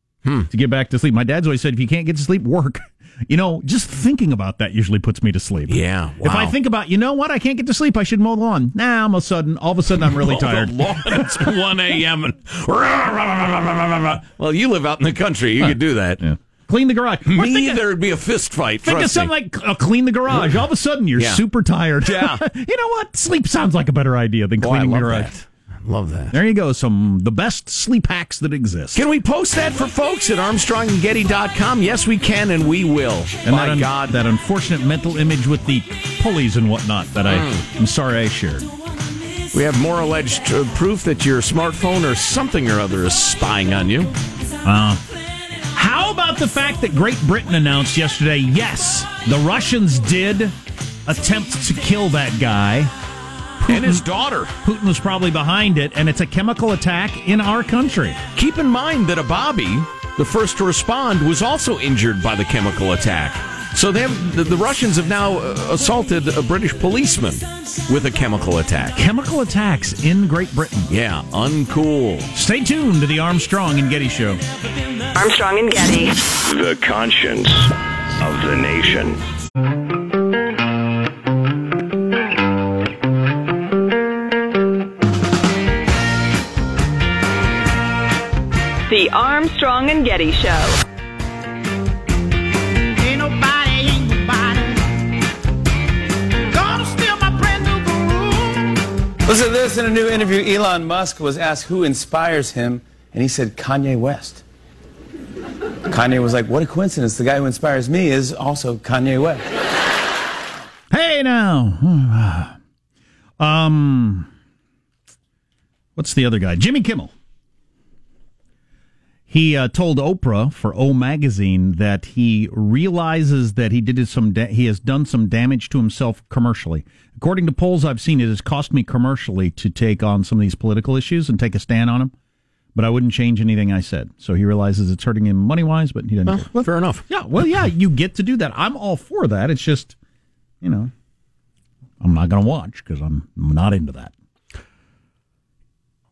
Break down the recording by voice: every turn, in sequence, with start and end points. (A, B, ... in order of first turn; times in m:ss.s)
0:00.5-0:11.5 A
0:05.7-0:06.6 B
0:10.0-0:16.2 B
0:15.6-0:17.9 A
0:17.2-0:19.3 B
0:18.8-0:25.3 A
0:21.1-0:21.4 B
0:22.0-0:22.4 B
0:24.6-0:26.4 B
0:26.3-0:29.0 A
0:28.9-0:34.2 B
0:33.4-0:38.7 A
0:37.2-0:37.7 B
0:39.5-0:44.1 B
0:44.6-0:45.0 A
0:45.7-0:52.9 A
0:53.6-0:54.1 A
0:53.7-0:54.5 B
0:54.6-0:58.2 A
0:58.3-1:09.1 B
1:09.0-1:10.9 A
1:10.9-1:12.3 B
1:12.3-1:14.4 A
1:15.2-1:16.1 C
1:16.4-1:19.2 D
1:28.9-1:30.7 C
1:33.0-1:34.8 A
1:36.5-1:38.8 A
1:39.3-1:44.4 E
1:45.9-1:49.4 E
1:50.9-1:52.6 A
1:53.4-1:54.3 A
1:56.0-1:57.1 A
1:59.3-2:12.1 A
2:12.8-2:20.0 A
2:16.2-2:17.0 B
2:20.6-2:20.9 A
2:22.0-2:24.1 A